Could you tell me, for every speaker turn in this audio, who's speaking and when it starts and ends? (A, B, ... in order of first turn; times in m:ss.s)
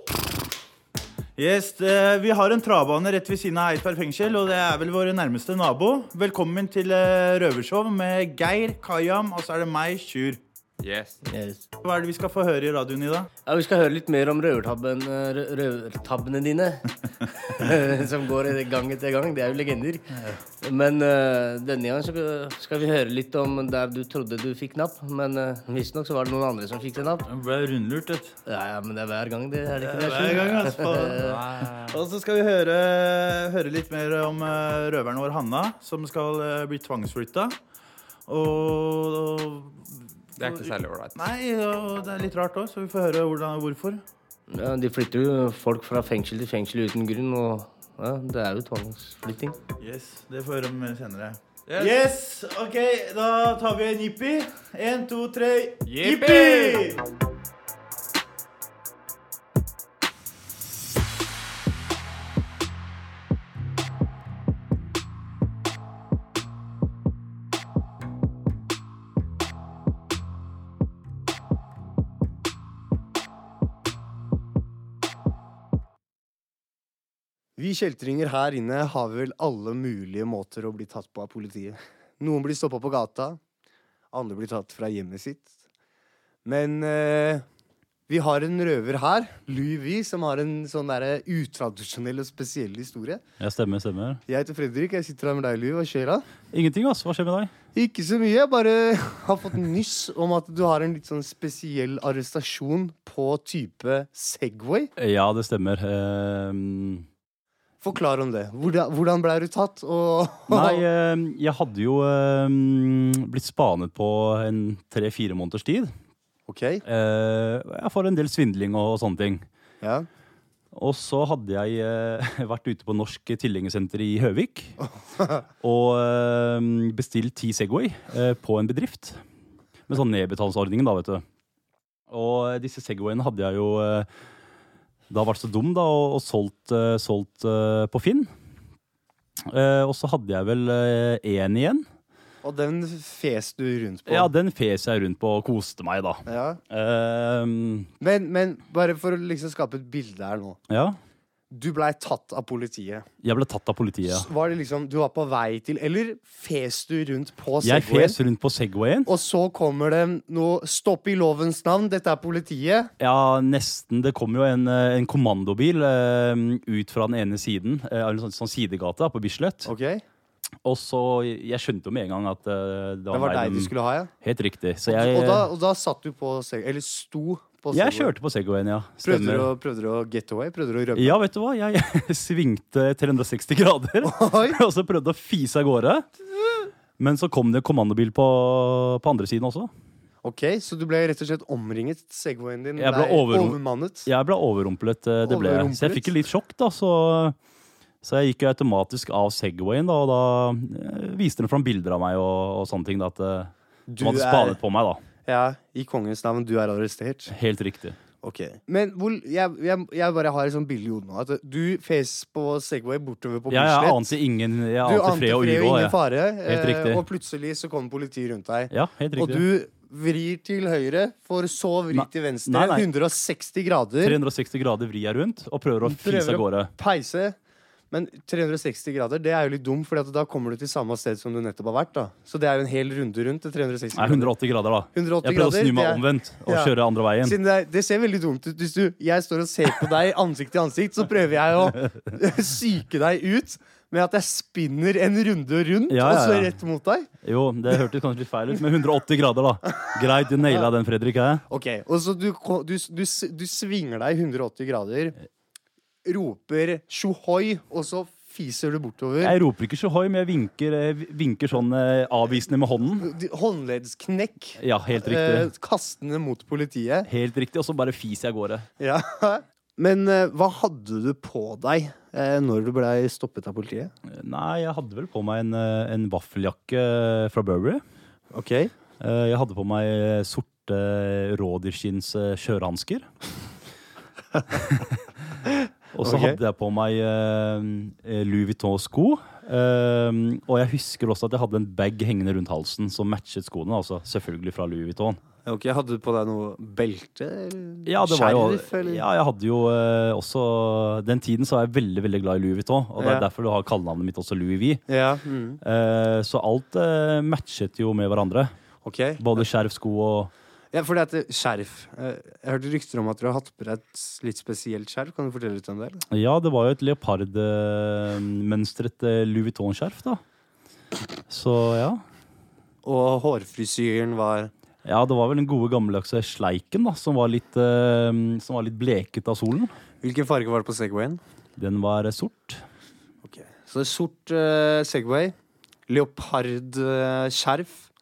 0:01.4-0:10.4 A
0:10.8-0:11.2 B
0:11.2-0:11.6 C
0:11.8-0:13.3 A
0:13.5-0:16.8 C
0:17.6-0:20.0 C
0:20.6-0:27.2 C
0:27.3-0:28.3 A
0:28.4-0:31.8 C
0:29.8-0:37.6 A
0:38.3-0:44.0 A
0:40.4-0:41.2 B
0:44.5-0:49.6 C
0:49.8-0:57.0 A
0:55.8-0:56.9 B
1:17.6-1:23.4 D
1:24.1-1:25.5 D
1:26.4-1:27.4 D
1:28.1-1:33.2 D
1:33.4-1:34.2 E
1:34.3-1:36.2 D
1:36.5-1:37.5 E
1:37.7-1:44.9 D
1:45.0-1:47.0 E
1:47.8-1:50.8 D
1:50.5-1:55.9 E
1:56.5-1:56.8 D
1:56.8-1:59.4 E
1:59.8-2:00.1 D
2:00.7-2:04.8 E
2:05.6-2:09.2 E
2:09.9-2:11.2 E
2:12.1-2:14.1 E
2:15.1-2:18.3 E
2:19.5-2:21.8 E
2:22.4-2:24.3 D
2:24.1-2:27.9 E
2:26.2-2:26.6 D
2:28.0-2:30.6 D
2:30.7-2:31.0 E
2:31.5-2:33.0 D
2:33.2-2:34.3 E
2:34.1-2:38.2 D
2:37.6-2:39.1 E
2:39.0-2:42.9 D
2:43.0-2:49.7 E
2:49.6-2:50.0 D
2:50.6-2:55.5 E
2:53.1-2:54.1 D
2:54.9-2:58.1 D
2:57.7-2:59.5 E
2:59.0-3:01.2 D
3:00.9-3:06.1 E
3:04.0-3:04.6 D
3:07.0-3:09.7 E
3:10.2-3:14.1 D
3:12.8-3:17.4 E
3:15.2-3:16.1 D
3:18.0-3:25.0 E
3:23.9-3:24.6 D
3:25.2-3:27.3 D
3:27.3-3:28.0 E
3:28.2-3:34.2 D
3:33.5-3:37.0 E
3:34.8-3:44.2 D
3:38.7-3:39.4 E
3:41.9-3:42.8 E
3:44.0-3:46.7 E
3:45.8-3:47.4 D
3:47.9-3:54.3 D
3:53.9-3:57.4 E
3:54.9-4:07.1 D
4:05.9-4:06.5 E
4:07.2-4:11.4 E
4:11.5-4:15.1 D
4:16.0-4:19.4 D
4:19.2-4:23.1 E
4:23.0-4:27.1 D
4:24.6-4:25.5 E
4:27.1-4:28.7 E
4:28.8-4:33.9 D
4:34.1-4:37.8 E
4:38.3-4:38.7 D
4:39.0-4:43.1 E
4:44.5-4:45.0 E
4:45.9-4:55.2 E
4:46.0-4:46.4 D
4:55.4-4:59.0 D
4:57.8-5:04.8 E
5:03.0-5:03.2 D
5:04.9-5:05.6 D
5:05.6-5:08.5 E
5:08.8-5:09.4 D
5:09.2-5:10.3 E
5:10.7-5:16.0 D
5:16.1-5:20.2 E
5:21.3-5:22.0 E
5:22.8-5:24.5 D
5:24.8-5:29.7 E
5:30.0-5:31.2 D
5:31.6-5:32.6 E
5:33.2-5:35.3 D
5:35.9-5:37.8 D